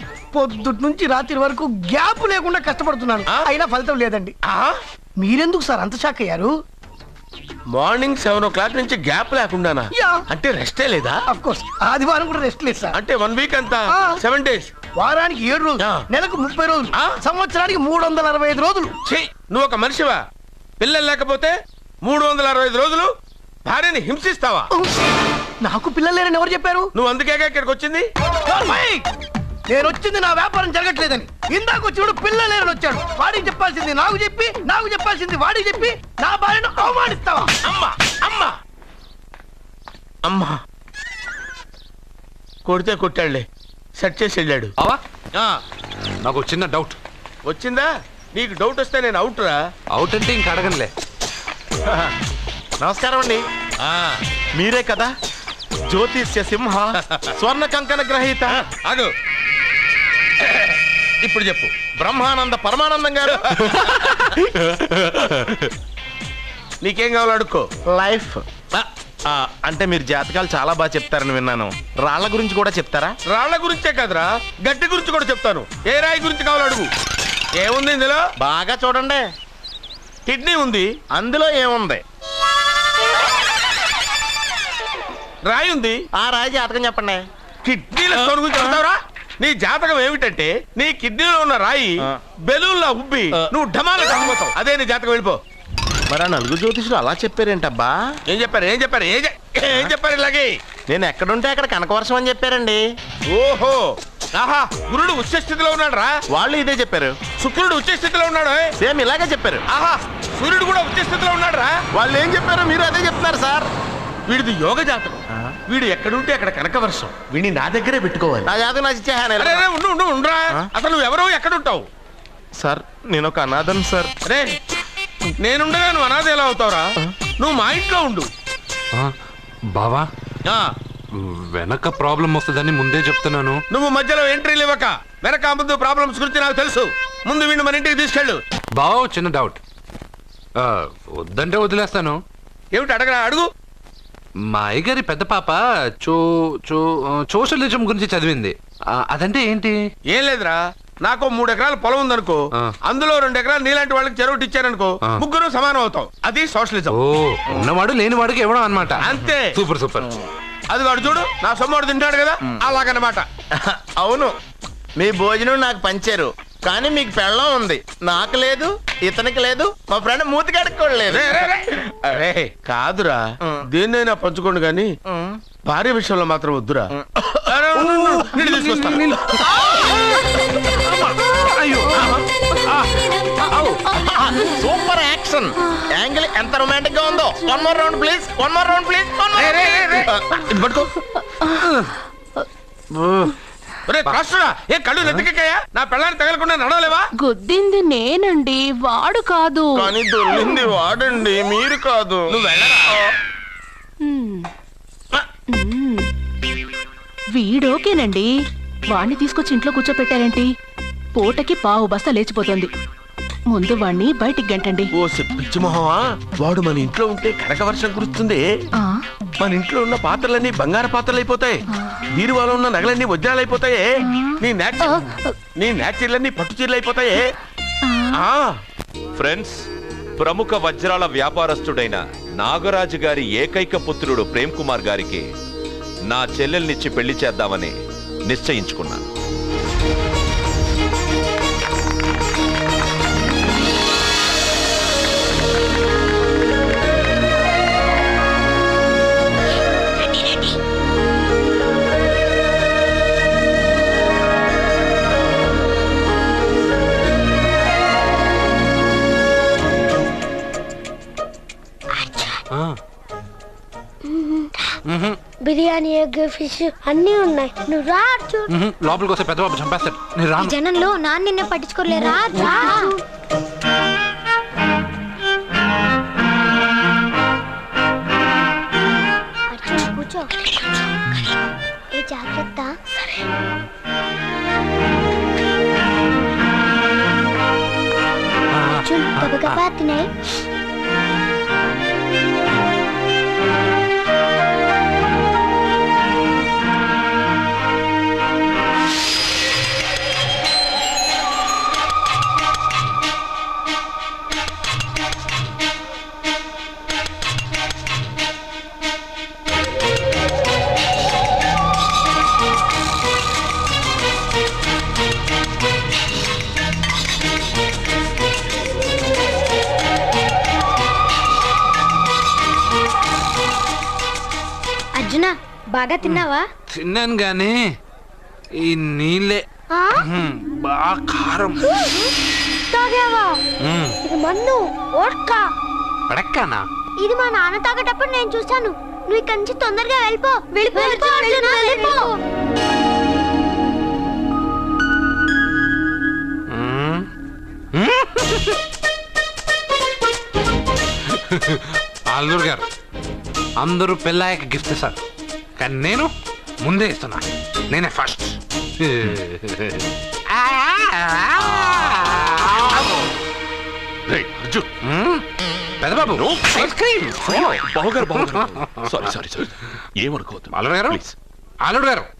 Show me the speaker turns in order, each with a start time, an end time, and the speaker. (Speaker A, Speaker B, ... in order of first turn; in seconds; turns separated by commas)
Speaker A: 0.3-4.3, Speaker B: 4.5-4.8, Speaker A: 5.2-6.5, Speaker B: 7.7-11.2, Speaker A: 9.9-10.2, Speaker A: 11.3-13.0, Speaker B: 12.9-14.7, Speaker A: 13.9-14.2, Speaker A: 14.9-18.9, Speaker B: 19.1-20.2, Speaker B: 20.8-21.5, Speaker B: 22.1-23.1, Speaker B: 23.6-24.7, Speaker A: 25.6-26.9, Speaker B: 26.9-28.1, Speaker A: 28.5-29.1, Speaker A: 29.7-37.5, Speaker B: 37.6-38.5, Speaker B: 40.3-40.6, Speaker B: 42.6-43.4, Speaker B: 44.0-44.7, Speaker C: 46.2-47.0, Speaker B: 47.5-49.6, Speaker C: 49.9-50.9, Speaker D: 52.8-53.4, Speaker B: 53.8-54.1, Speaker D: 54.6-55.1, Speaker D: 55.9-58.6, Speaker B: 58.6-59.1, Speaker B: 60.5-60.7, Speaker B: 61.2-61.9, Speaker D: 62.0-64.2, Speaker B: 63.4-65.7, Speaker B: 66.8-67.7, Speaker D: 67.9-68.4, Speaker D: 69.3-73.2, Speaker B: 73.3-76.9, Speaker B: 77.6-78.2, Speaker D: 78.4-79.2, Speaker B: 80.3-80.9, Speaker D: 81.1-82.0, Speaker B: 85.4-86.0, Speaker D: 86.1-87.2, Speaker B: 87.6-95.4, Speaker D: 96.1-98.1, Speaker B: 98.3-100.5, Speaker D: 99.6-99.9, Speaker D: 100.9-102.8, Speaker B: 103.3-106.1, Speaker D: 106.3-107.2, Speaker B: 107.4-108.7, Speaker D: 108.8-109.6, Speaker B: 109.7-111.7, Speaker D: 111.9-113.7, Speaker B: 114.3-118.5, Speaker D: 118.5-119.6, Speaker B: 119.4-121.9, Speaker D: 122.6-124.1, Speaker B: 124.2-124.5, Speaker B: 125.4-128.3, Speaker C: 129.8-130.1, Speaker C: 131.2-133.6, Speaker B: 133.7-138.4, Speaker C: 138.8-139.6, Speaker C: 140.6-142.2, Speaker B: 142.7-143.5, Speaker C: 144.5-149.8, Speaker B: 150.1-157.0, Speaker C: 156.9-160.1, Speaker B: 159.0-159.5, Speaker B: 160.7-163.3, Speaker D: 164.0-164.3, Speaker D: 165.0-171.5, Speaker B: 171.1-173.2, Speaker B: 173.7-174.9, Speaker D: 175.1-175.4, Speaker B: 175.7-176.9, Speaker B: 177.5-179.4, Speaker C: 177.8-179.2, Speaker C: 179.8-180.2, Speaker C: 181.4-181.9, Speaker D: 183.9-190.5, Speaker B: 189.3-190.9, Speaker E: 191.3-191.7, Speaker B: 193.9-197.1, Speaker E: 197.2-200.6, Speaker D: 199.8-202.3, Speaker B: 202.3-202.9, Speaker E: 204.0-204.5, Speaker E: 205.5-206.1, Speaker E: 207.3-208.3, Speaker E: 208.9-210.5, Speaker E: 211.1-212.7, Speaker E: 213.5-214.9, Speaker B: 215.0-218.4, Speaker B: 219.4-221.6, Speaker B: 222.2-223.9, Speaker E: 224.0-224.4, Speaker B: 224.4-225.0, Speaker B: 225.6-227.2, Speaker E: 227.9-228.1, Speaker B: 228.1-228.5, Speaker F: 229.2-229.6, Speaker F: 230.2-235.2, Speaker F: 236.1-239.0, Speaker G: 262.0-262.4, Speaker C: 262.5-262.8, Speaker G: 264.1-264.8, Speaker C: 264.9-265.2, Speaker G: 265.4-268.5, Speaker C: 268.5-270.6, Speaker G: 270.4-273.0, Speaker G: 279.5-281.2, Speaker G: 281.9-283.2, Speaker C: 288.5-289.6, Speaker G: 288.8-290.1, Speaker G: 325.0-326.4, Speaker C: 326.0-327.6, Speaker C: 328.6-329.4, Speaker G: 329.7-330.0, Speaker C: 330.0-331.7, Speaker G: 332.7-333.4, Speaker C: 333.6-334.0, Speaker G: 334.0-335.5, Speaker C: 336.1-336.7, Speaker G: 337.0-342.2, Speaker C: 346.5-347.1, Speaker C: 347.7-348.6, Speaker C: 351.1-352.6, Speaker C: 353.6-355.0, Speaker C: 355.6-356.1, Speaker C: 356.6-359.8, Speaker C: 360.4-362.4, Speaker F: 364.1-364.6, Speaker C: 364.8-365.2, Speaker C: 365.8-369.0, Speaker F: 366.2-366.6, Speaker F: 367.2-369.5, Speaker F: 370.1-371.1, Speaker C: 370.5-371.0, Speaker C: 371.6-372.1